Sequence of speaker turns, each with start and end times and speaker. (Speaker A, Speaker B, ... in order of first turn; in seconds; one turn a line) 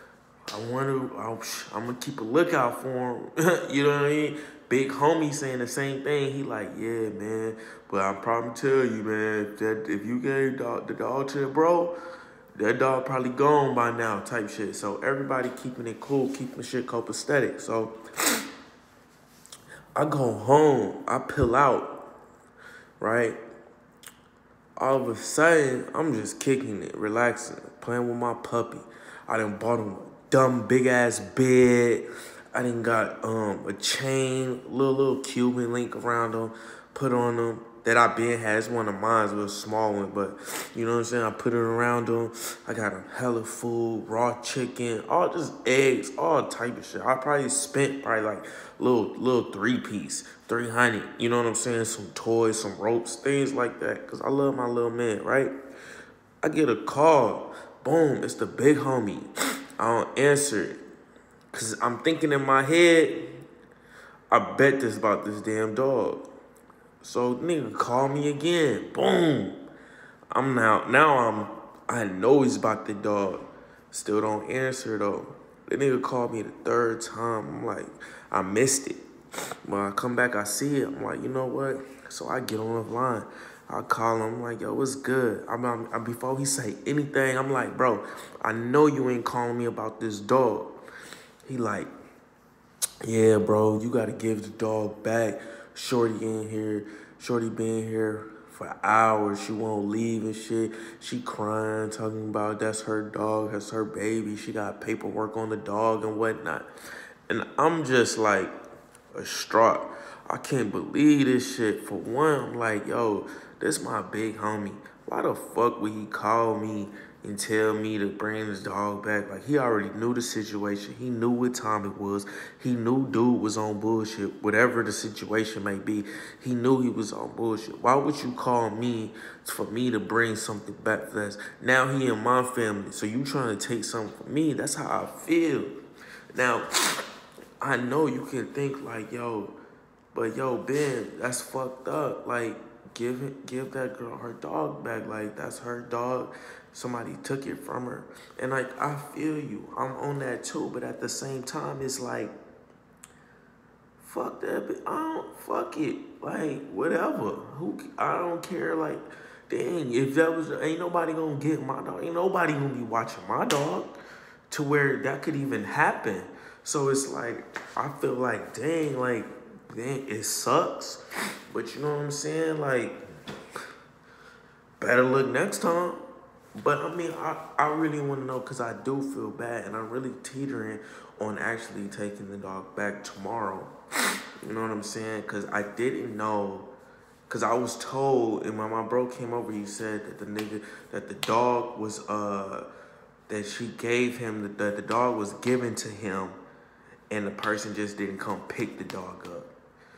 Speaker A: 0.5-11.9
Speaker A: 12.6-18.4
Speaker A: 19.9-22.1
Speaker A: 23.0-23.4
Speaker A: 24.8-55.5
Speaker A: 56.4-60.8
Speaker A: 61.5-63.4
Speaker A: 64.3-66.3
Speaker A: 67.0-69.6
Speaker A: 70.3-79.0
Speaker A: 79.7-90.7
Speaker A: 91.5-91.9
Speaker A: 93.0-106.7
Speaker A: 107.3-108.5
Speaker A: 109.1-135.8
Speaker A: 136.3-137.0
Speaker A: 137.6-139.6
Speaker A: 140.1-152.3
Speaker A: 154.0-163.9
Speaker A: 164.5-173.0
Speaker A: 174.8-176.0
Speaker A: 176.6-183.7
Speaker A: 184.4-186.7
Speaker A: 187.3-192.7
Speaker A: 193.3-196.4
Speaker A: 197.1-199.5